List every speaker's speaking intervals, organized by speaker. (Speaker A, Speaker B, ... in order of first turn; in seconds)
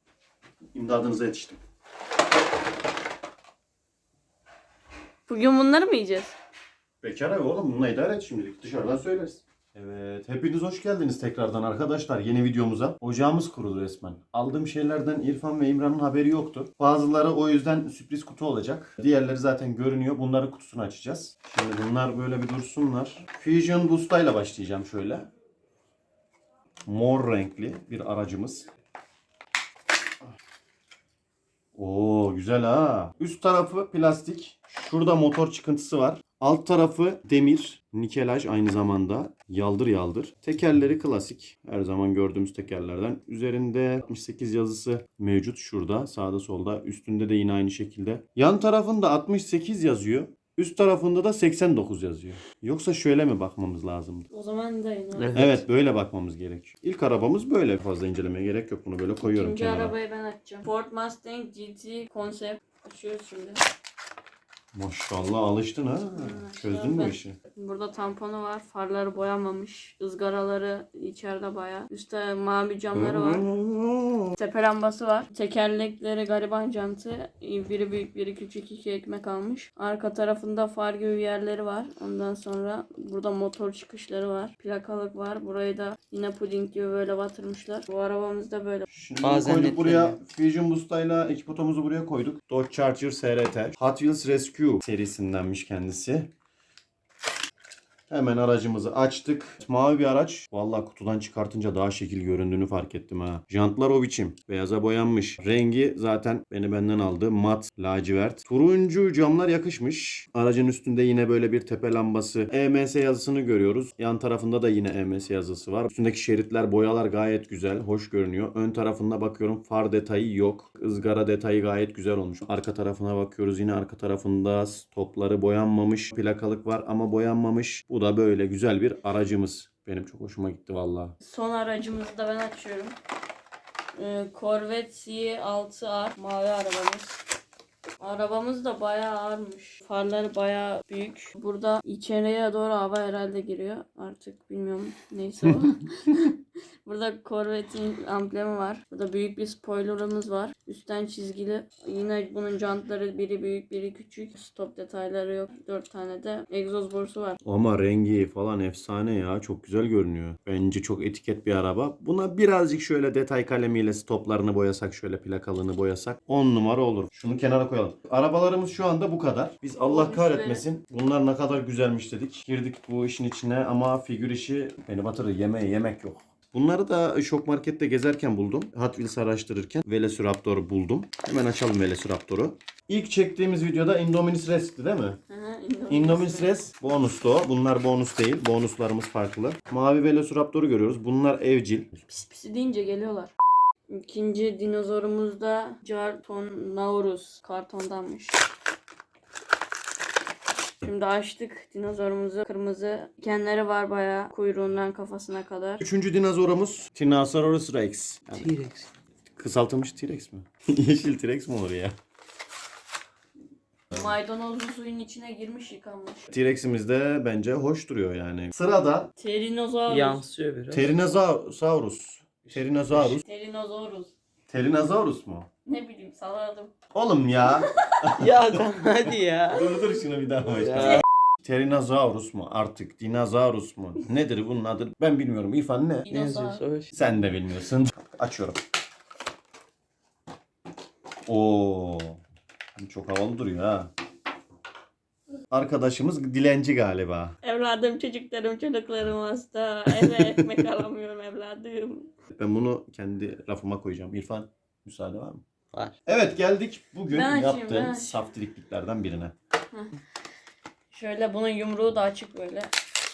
Speaker A: 0.7-1.6, 7.0-25.3, 26.9-28.7, 31.8-54.3, 55.3-59.9, 64.7-67.4, 72.9-74.4, 88.9-96.3, 98.1-131.2, 157.4-185.2, 185.9-191.9, 205.8-208.5, 209.4-211.9, 216.3-219.1, 220.7-223.2, 224.5-225.5, 226.9-228.6, 229.5-236.1, 236.9-238.6, 241.3-242.2, 242.8-243.9, 245.5-247.4, 252.3-255.4, 256.1-259.3
Speaker B: 5.3-6.3, 54.3-55.4, 59.2-63.6, 66.2-73.5, 74.4-88.9, 131.2-133.0, 134.0-137.2, 138.0-157.4, 169.8-170.7, 185.3-186.5, 192.1-193.3, 193.9-198.4, 200.8-205.8, 213.9-216.3, 219.2-220.2, 223.2-224.1, 225.7-226.7, 227.5-227.9, 236.1-236.6, 247.4-252.1, 257.1-258.2, 260.9-262.7
Speaker C: 55.2-55.6, 89.2-90.2, 208.4-208.9, 219.9-220.8, 228.2-229.7, 230.6-231.0, 236.1-236.9